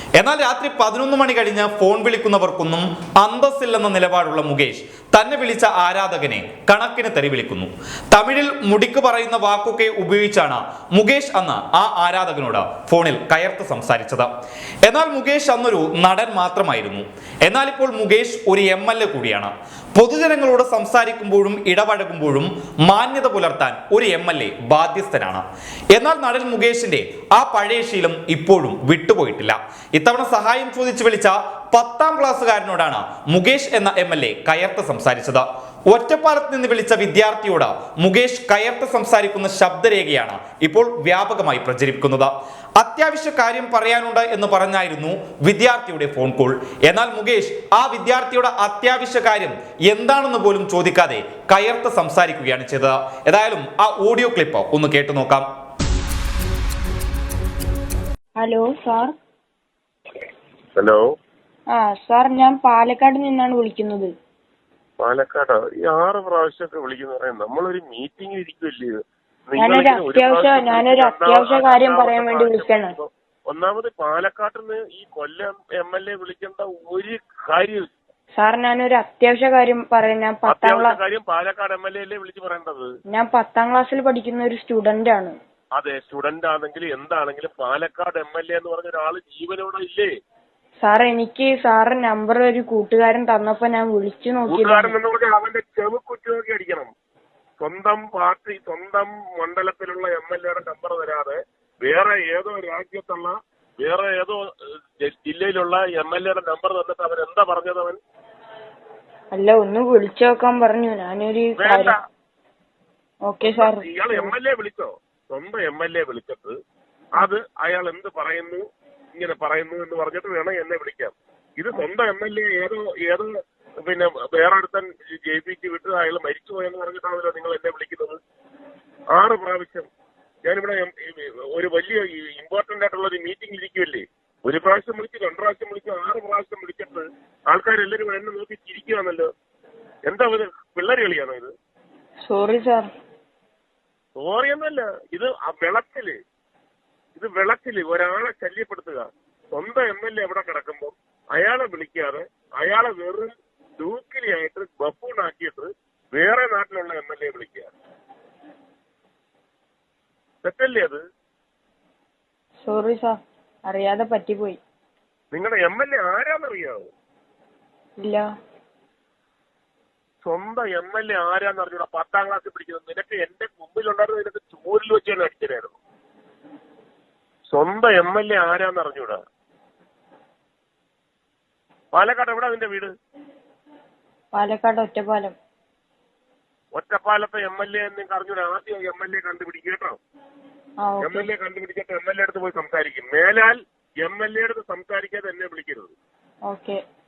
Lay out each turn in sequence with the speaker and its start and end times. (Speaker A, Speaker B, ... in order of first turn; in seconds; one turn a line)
Speaker A: 0.2-14.3
Speaker A: 14.8-55.5
Speaker B: 58.4-59.1
Speaker C: 60.8-61.0
Speaker B: 61.7-64.1
Speaker C: 65.0-77.9
Speaker B: 69.5-72.9
Speaker B: 78.4-81.0
Speaker C: 80.5-82.9
Speaker B: 83.1-85.3
Speaker C: 85.8-90.1
Speaker B: 90.8-94.9
Speaker C: 94.5-96.9
Speaker C: 97.6-104.4
Speaker C: 105.0-108.0
Speaker B: 109.3-111.9
Speaker C: 111.6-112.0
Speaker B: 113.2-114.3
Speaker C: 113.4-116.5
Speaker C: 117.2-118.6
Speaker C: 119.2-123.3
Speaker C: 123.8-128.2
Speaker C: 129.1-129.9
Speaker C: 130.4-139.3
Speaker C: 140.1-141.5
Speaker B: 142.2-142.9
Speaker C: 144.2-146.2
Speaker C: 147.2-157.7
Speaker C: 160.4-161.0
Speaker B: 162.6-163.2
Speaker B: 163.7-164.6
Speaker C: 165.3-166.9
Speaker B: 168.0-168.2
Speaker C: 170.2-175.8
Speaker C: 177.5-179.2
Speaker C: 181.9-182.9
Speaker B: 184.3-185.3
Speaker C: 186.7-190.0
Speaker B: 190.8-191.3
Speaker C: 191.0-195.9
Speaker B: 196.5-196.8